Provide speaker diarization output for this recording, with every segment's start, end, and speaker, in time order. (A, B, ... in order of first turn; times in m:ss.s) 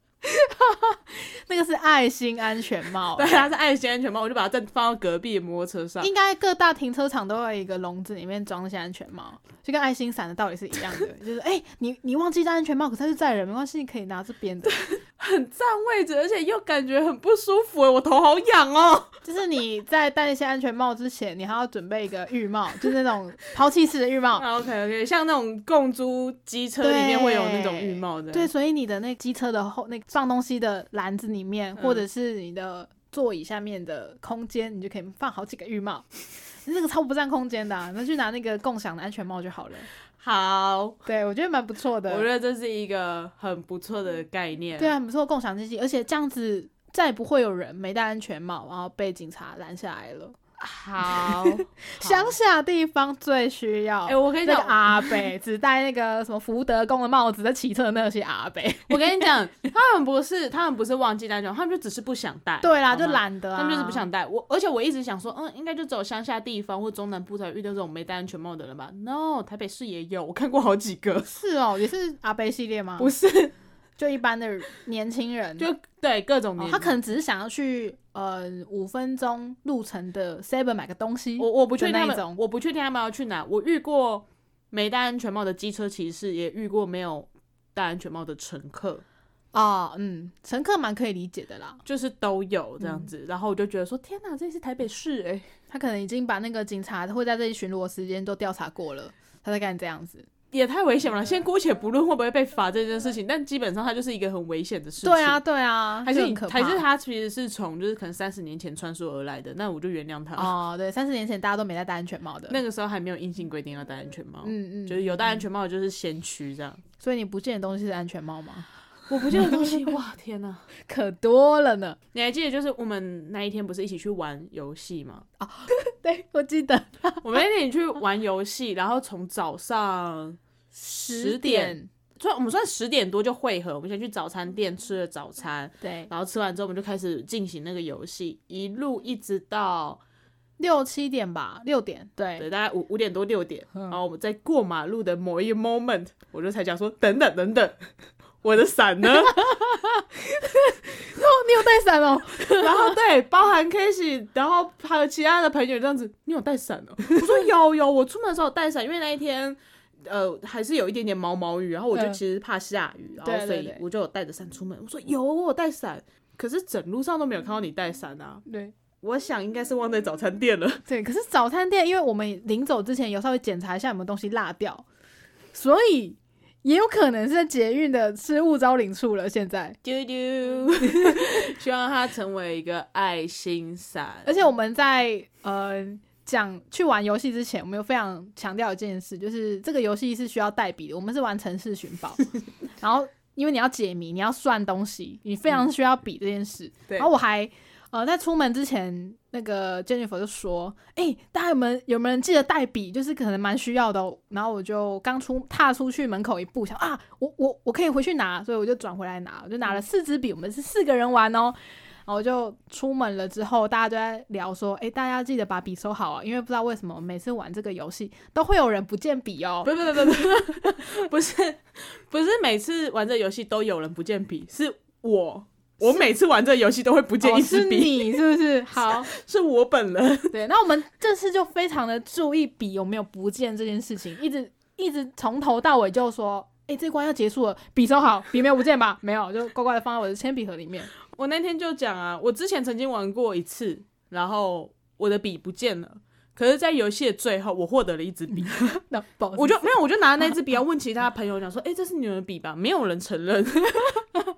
0:00.2-0:03.5 A
0:03.1-0:06.1 B
0:06.0-0:14.9 A
0:14.8-0:19.2 B
0:19.2-0:24.4 A
0:24.4-0:28.5 B
0:26.8-0:36.1 A
0:31.8-0:32.0 B
0:36.6-0:39.9 A
0:40.2-0:41.0 B
0:41.1-0:42.3 A
0:42.1-0:44.9 B
0:44.8-0:50.4 A
0:50.6-0:52.4 B
0:51.0-0:59.3 A
0:54.1-0:55.3 B
0:58.9-1:11.3 B
1:02.6-1:04.1 A
1:11.3-1:13.1 A
1:13.0-1:13.5 B
1:14.0-1:15.7 A
1:15.6-1:17.0 B
1:16.6-1:22.4 A
1:21.4-1:29.0 B
1:29.5-1:31.8 A
1:31.8-1:35.5 B
1:35.7-1:40.3 A
1:40.5-1:45.4 B
1:45.0-1:46.8 A
1:46.0-1:50.5 B
1:50.4-1:52.6 A
1:52.5-1:56.8 B
1:54.4-1:55.2 A
1:57.0-1:58.7 A
1:59.1-2:00.7 B
1:59.3-1:59.9 A
2:00.8-2:02.0 A
2:02.1-2:05.3 B
2:05.4-2:07.4 A
2:07.2-2:10.4 B
2:10.8-2:11.9 A
2:10.9-2:20.0 B
2:15.8-2:16.1 A
2:20.6-2:22.5 A
2:22.4-2:27.8 B
2:28.4-2:29.5 B
2:29.3-2:33.0 A
2:32.6-2:48.4 B
2:41.9-2:42.2 A
2:43.2-2:43.8 A
2:48.5-2:48.7 A
2:49.0-2:50.8 B
2:50.9-2:54.8 A
2:55.5-2:59.8 A
2:59.8-3:04.4 B
3:00.8-3:01.4 A
3:04.2-3:40.8 A
3:39.6-3:48.2 B
3:47.2-3:49.1 A
3:48.8-3:50.4 B
3:50.3-4:00.9 A
4:01.0-4:08.6 B
4:08.5-4:09.6 A
4:09.4-4:14.1 B